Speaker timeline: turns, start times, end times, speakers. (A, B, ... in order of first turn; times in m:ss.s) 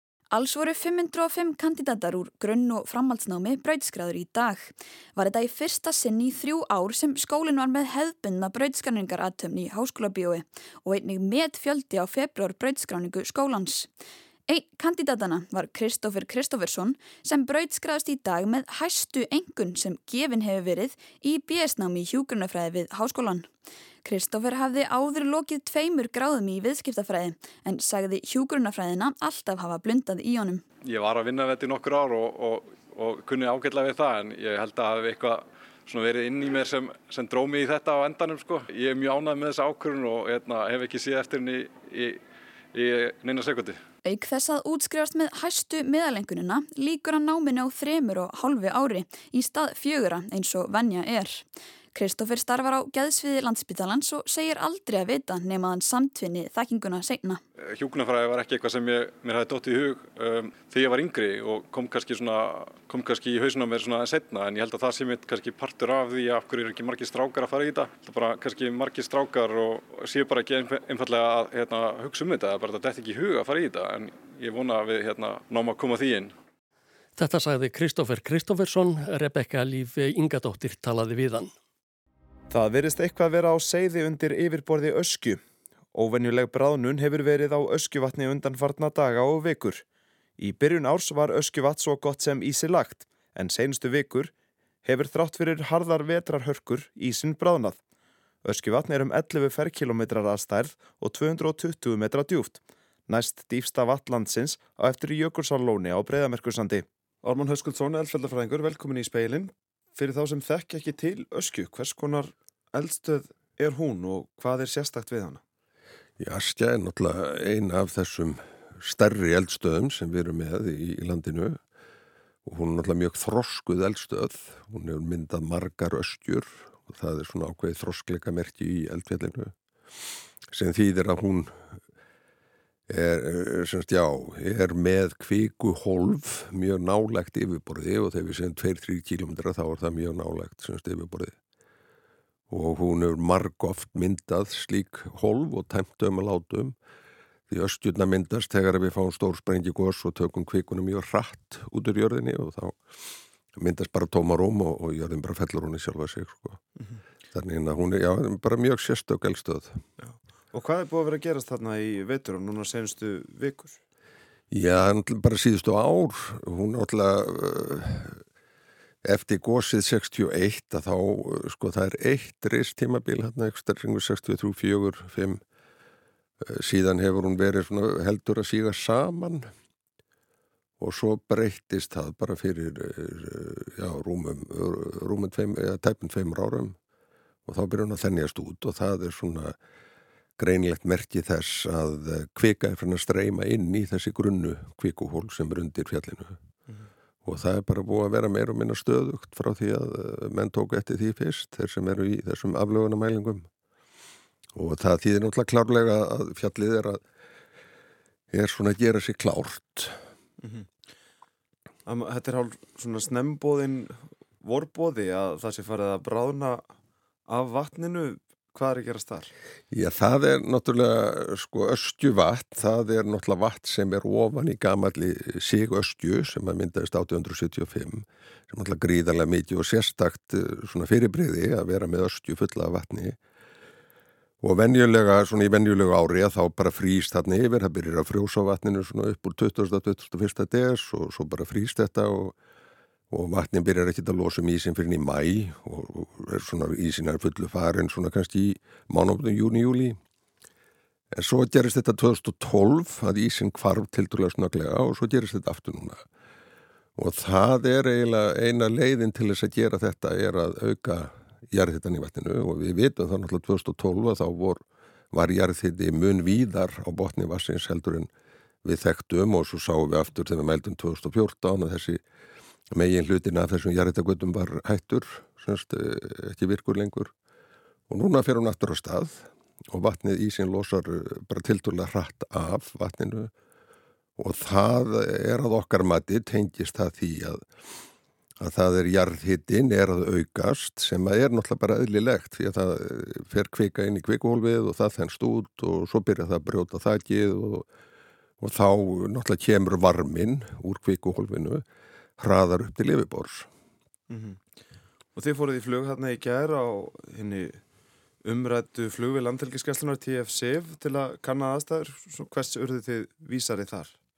0:00.3-0:13.9 A
0:14.5-0:23.5 A
0:24.0-0:30.6 A
0:30.8-0:42.2 B
0:42.7-0:43.8 B
0:44.0-0:57.4 A
0:57.6-1:16.3 B
1:17.2-1:21.5 C
1:22.5-1:25.4 D
1:25.9-1:29.8 D
1:30.4-1:34.3 D
1:34.8-1:37.8 D
1:38.4-1:55.4 D
1:56.2-2:01.6 E
2:02.4-2:09.5 E
2:10.5-2:11.6 E
2:12.9-2:21.4 E
2:22.5-2:26.8 E
2:27.5-2:32.8 E
2:33.6-2:36.6 E
2:37.3-2:39.8 E
2:40.0-2:43.8 D
2:44.5-2:48.2 E
2:49.0-2:55.4 E
2:56.4-2:59.5 E
3:00.8-3:06.8 E
3:07.5-3:09.6 E
3:10.4-3:16.4 E
3:17.2-3:23.5 E
3:24.6-3:27.0 E
3:28.3-3:30.0 E
3:30.4-3:30.7 D
3:31.9-3:36.7 D
3:37.3-3:39.3 D
3:39.7-3:53.2 E
3:54.4-4:02.4 E
4:03.1-4:10.0 E
4:11.1-4:16.1 E
4:17.0-4:28.1 E
4:28.6-4:32.0 E
4:32.7-4:37.1 E
4:37.9-4:43.3 E
4:44.2-4:47.5 E
4:48.4-4:57.7 E
4:58.4-5:01.6 E
5:02.2-5:03.5 E
5:04.1-5:04.4 D
5:05.2-5:07.6 D
5:08.2-5:14.0 D